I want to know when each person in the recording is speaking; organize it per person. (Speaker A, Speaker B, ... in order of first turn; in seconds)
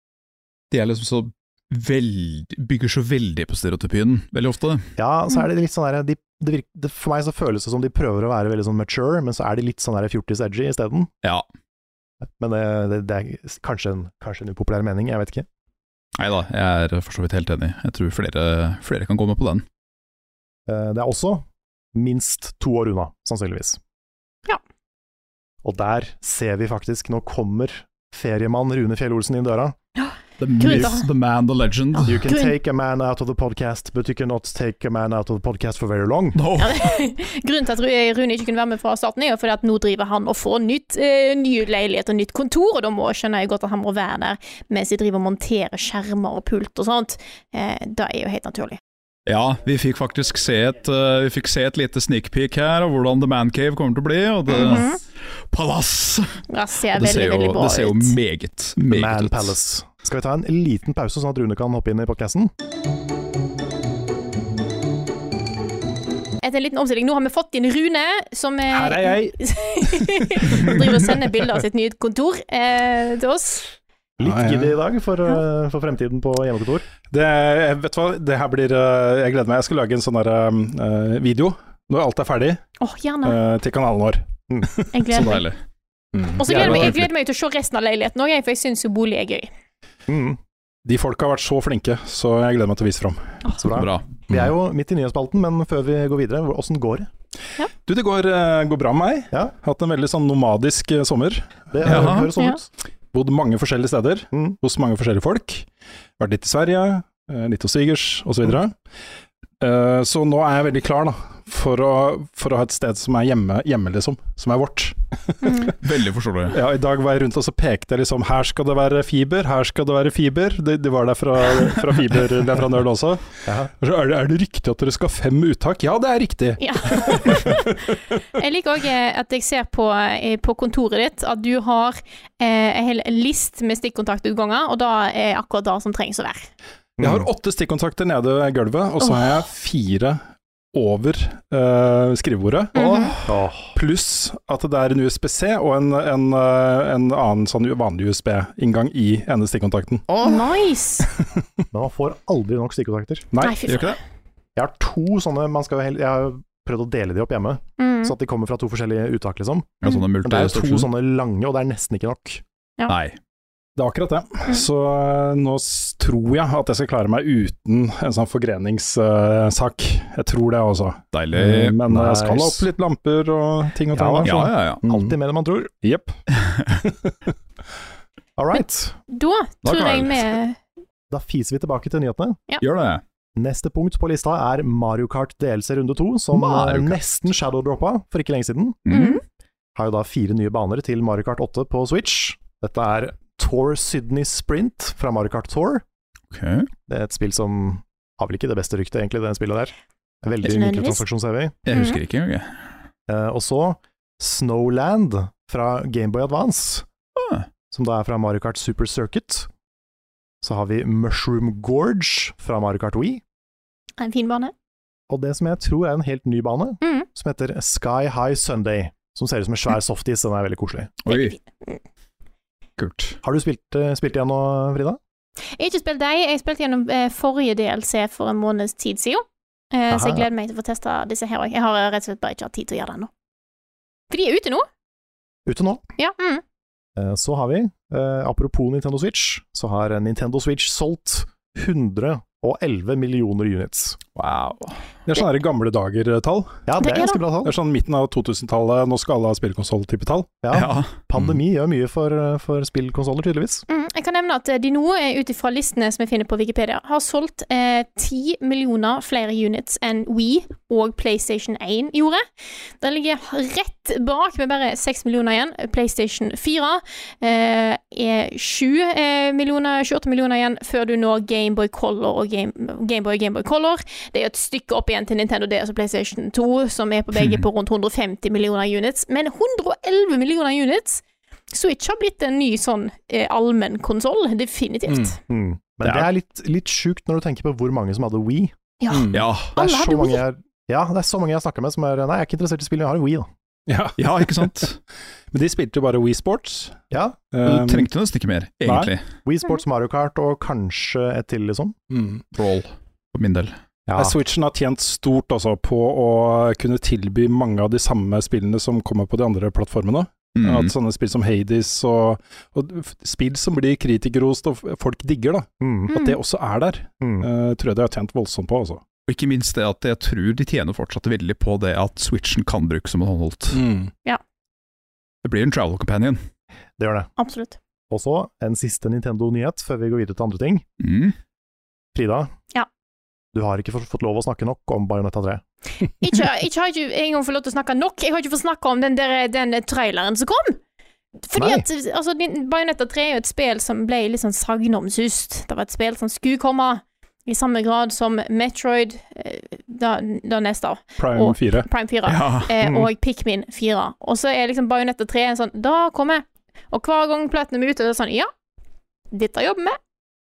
Speaker A: 0.7-4.8, 16.1-19.6, 30.4-32.2, 36.3-36.9, 49.3-55.0, 55.5-56.4, 56.9-59.5, 85.1-85.6, 93.7-94.0, 101.8-102.3, 115.8-116.6, 153.7-154.0, 159.8-160.9, 162.9-163.2, 171.1-171.8, 174.2-174.8, 179.6-180.3, 182.6-183.0, 186.3-187.0, 188.8-189.2, 196.3-196.7, 201.7-202.5, 207.2-207.5, 221.0-221.3, 222.8-223.2, 244.2-244.8, 250.5-251.2, 289.1-289.5, 294.0-294.8, 297.4-299.0, 302.3-303.5, 310.3-310.7, 319.1-323.6, 325.2-326.2, 330.8-331.1, 352.1-352.5
Speaker B: 5.0-11.1, 12.4-15.5, 20.7-23.8, 25.6-29.8, 32.0-36.4, 58.9-62.5, 74.2-76.8, 86.5-87.0, 90.1-90.4, 93.5-97.1, 101.7-102.7, 123.4-123.7, 137.0-137.3, 142.8-143.8, 151.7-153.3, 154.6-162.4, 171.9-172.7, 173.9-175.7, 178.4-179.0, 181.1-182.4, 183.3-188.8, 189.7-195.8, 196.9-201.6, 203.1-206.8, 207.7-209.5, 210.4-213.2, 215.1-220.9, 223.2-225.0, 229.9-230.2, 235.4-235.8, 236.9-244.0, 246.7-247.5, 250.4-253.7, 285.3-288.5, 289.6-293.3, 296.9-297.2, 299.2-301.8, 303.9-304.1, 315.6-315.9, 317.0-317.3, 326.8-327.1, 327.9-330.6, 331.9-332.3, 333.3-335.4, 341.3-341.6, 352.6-352.9
Speaker C: 30.0-31.1, 31.9-32.5, 36.6-48.8, 54.5-55.0, 56.5-58.1, 66.4-73.7, 82.8-83.4, 84.9-85.5, 86.4-89.5, 115.4-115.7, 126.6-127.6, 128.3-136.5, 142.7-143.1, 150.2-151.1, 153.4-153.9, 157.8-158.1, 178.5-180.6, 188.9-189.2, 200.4-201.0, 201.7-202.0, 214.0-214.5, 216.8-217.1, 221.1-221.8, 225.6-233.1, 234.1-234.7, 236.0-236.4, 246.8-247.2, 253.7-262.2, 262.8-285.2, 288.8-290.2, 315.9-316.2, 327.2-327.6, 336.0-340.6, 341.2-358.3, 359.1-359.8
Speaker D: 68.7-69.3, 74.2-74.8, 77.1-82.6, 83.2-84.8, 86.1-87.0, 90.8-93.3, 97.8-102.1, 103.1-105.7, 106.2-108.8, 109.6-115.7, 116.5-123.2, 123.8-127.7, 137.0-140.2, 140.7-142.8, 143.7-150.1, 153.3-153.6, 163.8-175.1, 175.8-176.2, 245.1-246.7, 247.4-250.4, 284.9-285.1, 288.9-289.3, 293.7-294.6, 295.3-297.9, 298.6-298.9, 301.9-302.2, 303.9-318.8, 323.5-323.9, 351.0-351.7